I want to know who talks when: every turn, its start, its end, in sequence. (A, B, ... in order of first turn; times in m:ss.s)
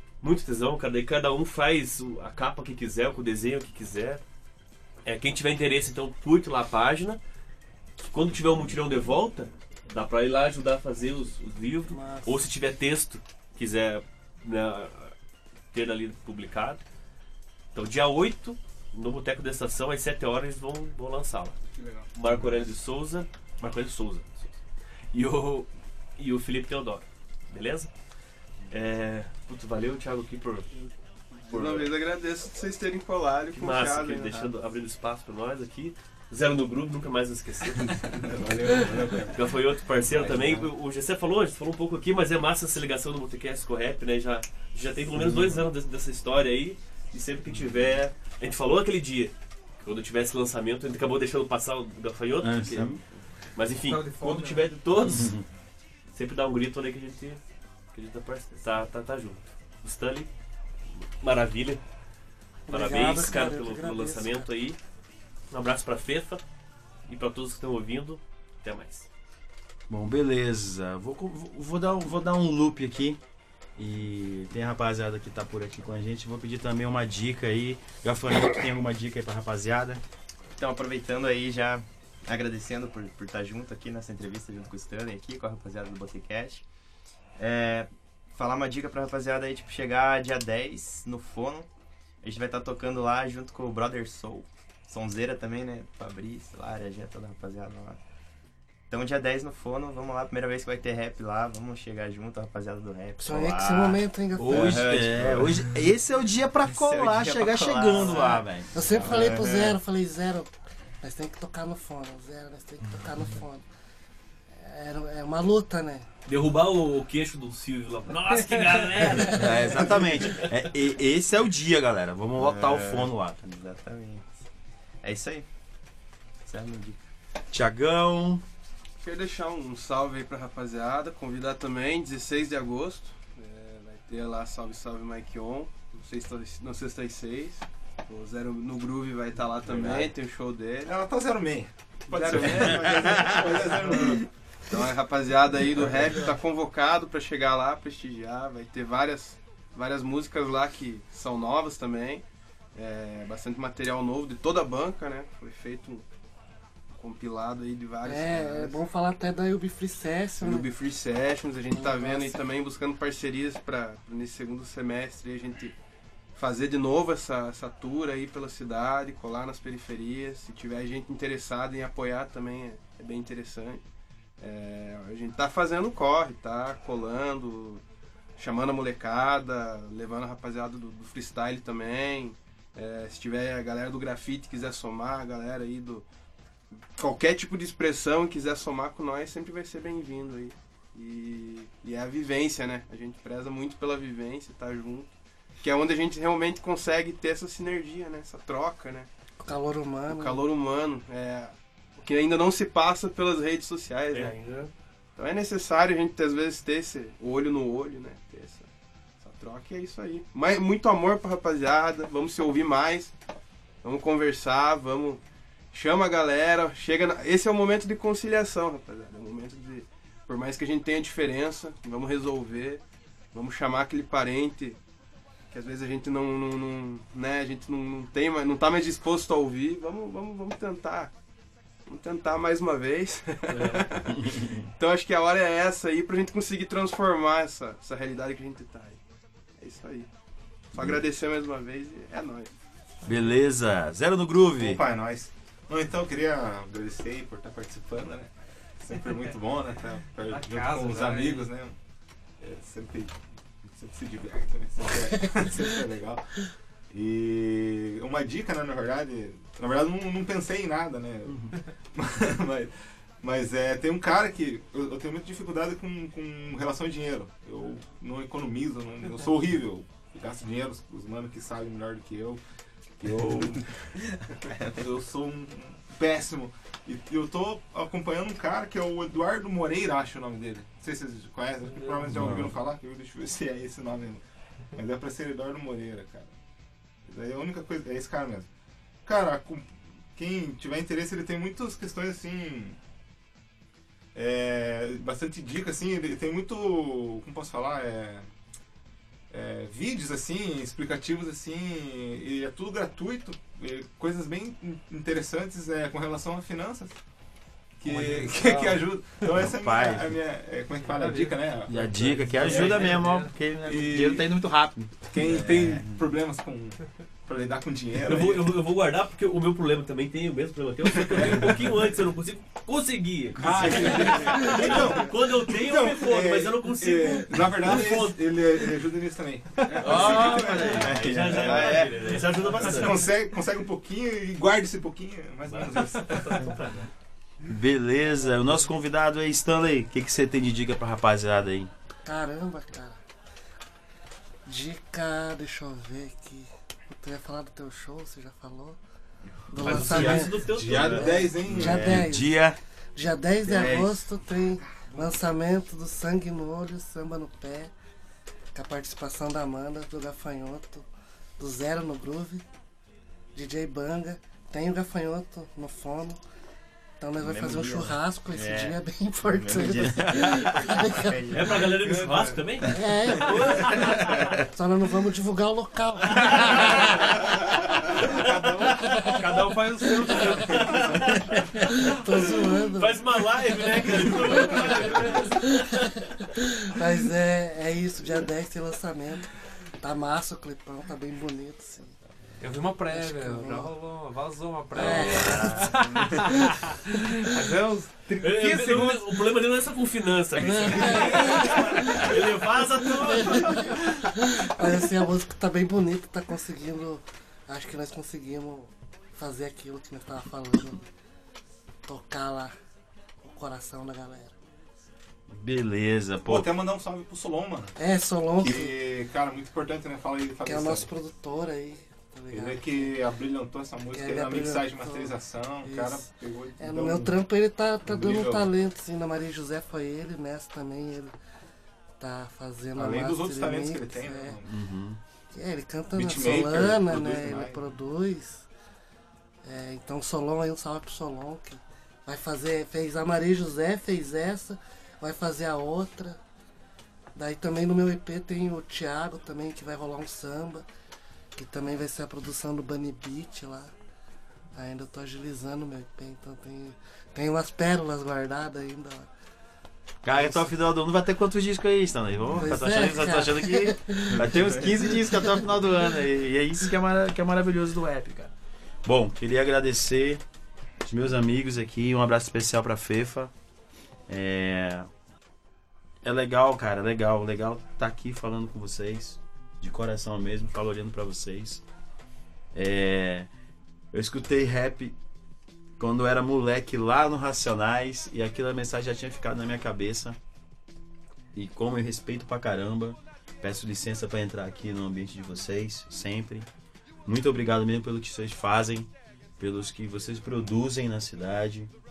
0:00.2-0:04.2 A
0:05.0-0:07.2 A
0:08.0-0:15.1 A
0:11.9-0:12.4 B
0:15.7-0:16.8 A
0:17.7-0:21.6 A
0:21.8-0:22.1 C
0:22.1-0:24.6 A
0:25.1-0:27.9 A
0:28.7-0:30.7 A
0:31.5-0:31.9 A
0:31.5-0:34.5 D
0:33.5-0:53.0 A
0:38.0-0:39.4 C
0:40.0-0:40.7 C
0:45.1-0:45.6 E
0:52.4-0:53.0 E
0:53.5-0:55.4 A
0:53.7-0:54.8 F
0:55.0-0:55.4 E
0:56.1-0:57.4 A
0:57.9-1:00.3 A
1:01.2-1:01.8 A
1:02.7-1:04.5 B
1:02.7-1:04.8 A
1:05.5-1:06.4 A
1:07.1-1:09.1 A
1:09.9-1:13.2 E
1:13.8-1:20.0 E
1:20.6-1:26.6 G
1:27.4-1:31.7 G
1:32.2-1:38.0 G
1:38.9-1:45.7 G
1:43.2-1:44.9 B
1:44.4-1:48.7 E
1:46.6-1:48.4 G
1:48.7-1:53.6 B
1:48.8-1:49.8 C
1:54.5-1:56.0 B
1:56.3-2:00.5 A
1:58.5-1:59.0 F
1:59.3-2:03.4 E
2:02.4-2:04.4 G
2:05.0-2:05.5 G
2:06.4-2:07.0 G
2:07.5-2:08.4 E
2:09.0-2:21.0 D
2:19.7-2:20.0 C
2:20.8-2:24.2 C
2:22.1-2:32.2 D
2:32.7-2:36.0 D
2:36.9-2:38.8 D
2:38.0-2:40.7 B
2:40.4-2:45.7 D
2:41.7-2:42.4 B
2:46.3-2:53.8 D
2:54.4-2:57.8 D
2:58.4-3:06.0 D
3:06.8-3:19.1 D
3:19.4-3:20.4 B
3:20.1-3:24.4 D
3:24.1-3:24.7 A
3:25.2-3:28.7 D
3:29.2-3:33.1 D
3:33.8-3:35.2 D
3:35.7-3:42.8 D
3:43.3-3:44.8 D
3:45.5-3:51.1 D
3:51.8-3:59.0 D
3:53.5-3:54.0 A
3:54.2-3:54.6 E
3:59.6-4:00.1 D
4:00.7-4:02.5 D
4:03.0-4:04.8 E
4:04.6-4:11.7 C
4:10.2-4:11.5 F
4:12.4-4:16.4 C
4:16.9-4:32.4 C
4:21.3-4:21.5 E
4:33.0-4:34.0 C
4:33.2-4:33.4 E
4:34.7-4:44.2 C
4:41.7-4:42.4 F
4:42.1-4:42.5 E
4:44.7-4:46.3 C
4:47.0-4:48.5 C
4:49.0-4:52.8 C
4:54.1-4:58.3 C
4:59.3-5:07.0 C
5:07.8-5:14.3 C
5:07.8-5:09.3 F
5:09.4-5:10.2 E
5:10.8-5:13.3 F
5:11.7-5:15.8 E
5:15.1-5:18.5 C
5:15.2-5:16.0 G
5:18.0-5:28.7 A
5:21.1-5:21.6 C
5:23.3-5:31.1 C
5:29.7-5:33.1 A
5:29.8-5:32.2 E
5:30.7-5:32.1 G
5:32.4-5:36.8 C
5:35.5-5:36.7 A
5:37.4-5:41.7 E
5:42.0-5:43.0 B
5:44.4-5:48.8 B
5:49.5-5:52.4 B
5:49.6-5:51.1 A
5:49.6-5:52.0 C
5:49.7-5:50.1 E
5:51.4-5:52.6 E
5:53.0-5:57.7 B
5:53.4-5:54.0 E
5:54.7-5:55.0 C
5:58.5-6:00.8 B
6:01.4-6:02.4 B
6:03.4-6:06.2 B
6:07.0-6:11.1 B
6:07.2-6:12.4 G
6:09.5-6:10.6 E
6:11.3-6:14.2 A
6:11.8-6:12.4 C
6:12.7-6:13.7 B
6:13.3-6:14.1 C
6:14.2-6:17.0 B
6:16.2-6:16.6 A
6:18.0-6:18.6 C
6:18.8-6:19.4 B
6:18.8-6:21.0 F
6:20.4-6:25.5 A
6:20.7-6:21.1 C
6:21.7-6:24.8 B
6:24.3-6:25.3 C
6:25.3-6:32.0 B
6:32.4-6:39.2 F
6:32.9-6:33.7 B
6:34.7-6:35.6 B
6:35.0-6:35.7 E
6:38.2-6:44.0 A
6:40.4-6:42.1 B
6:43.1-6:50.8 B
6:51.8-6:52.5 B
6:53.2-6:54.4 B
6:55.3-6:56.5 E
6:56.2-6:57.7 C
6:57.8-6:58.7 B
6:58.4-7:00.9 C
7:00.4-7:02.9 B
7:02.3-7:07.2 C
7:03.9-7:06.1 B
7:06.6-7:11.1 B
7:07.8-7:08.5 C
7:12.0-7:14.4 B
7:12.7-7:14.5 C
7:14.4-7:15.0 E
7:15.3-7:18.5 B
7:15.9-7:17.7 C
7:19.4-7:26.2 B
7:27.1-7:30.6 B
7:31.4-7:33.7 B
7:34.5-7:39.1 B
7:40.0-7:48.3 E
7:40.1-7:40.5 B
7:42.4-7:45.4 B
7:48.8-7:50.2 E
7:50.8-7:53.3 E
7:54.1-7:54.9 E
7:56.0-8:01.6 E
8:02.5-8:03.3 E
8:03.9-8:05.0 E
8:05.8-8:10.2 E
8:11.3-8:16.5 E
8:17.0-8:21.7 E